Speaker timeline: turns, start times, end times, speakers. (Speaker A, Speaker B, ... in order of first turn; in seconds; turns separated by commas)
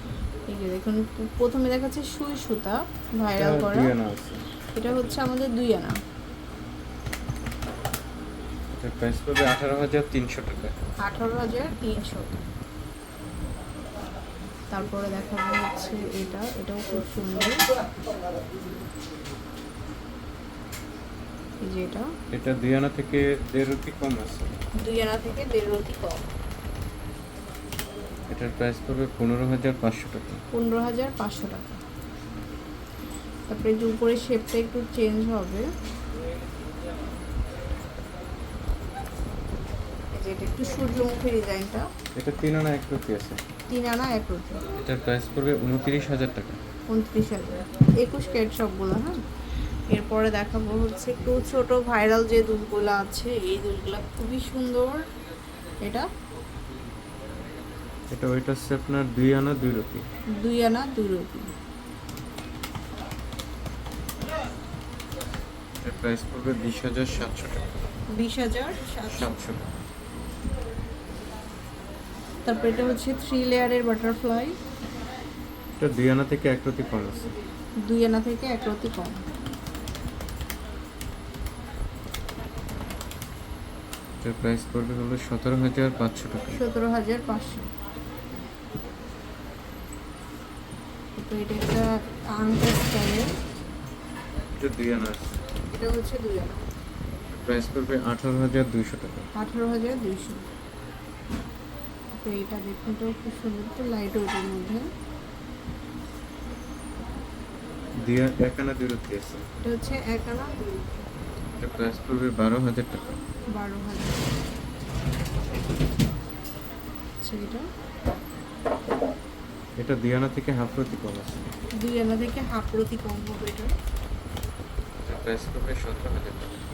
Speaker A: 0.5-3.9, Speaker B: 3.3-4.4, Speaker A: 4.7-6.0, Speaker B: 8.8-10.8, Speaker A: 11.0-12.4, Speaker A: 14.7-17.6, Speaker A: 21.6-22.1, Speaker B: 22.3-24.5, Speaker A: 24.8-26.2, Speaker B: 28.3-30.4, Speaker A: 30.5-31.8, Speaker A: 33.5-35.7, Speaker A: 40.2-41.9, Speaker B: 42.1-43.4, Speaker A: 43.7-44.6, Speaker B: 44.8-46.6, Speaker A: 46.9-49.2, Speaker A: 49.9-55.0, Speaker B: 58.1-60.0, Speaker A: 60.3-61.5, Speaker B: 65.8-67.7, Speaker A: 68.1-69.3, Speaker B: 69.1-69.7, Speaker A: 72.5-74.5, Speaker B: 75.8-77.3, Speaker A: 77.8-79.2, Speaker B: 84.2-86.6, Speaker A: 86.5-87.7, Speaker A: 91.2-93.3, Speaker B: 94.6-95.3, Speaker A: 95.7-96.6, Speaker B: 97.3-99.3, Speaker A: 99.3-100.4, Speaker A: 102.1-104.9, Speaker B: 108.0-109.4, Speaker A: 109.6-111.0, Speaker B: 111.6-113.1, Speaker A: 113.5-114.2, Speaker A: 117.2-117.7, Speaker B: 119.8-121.5, Speaker A: 121.8-123.7, Speaker B: 125.0-126.5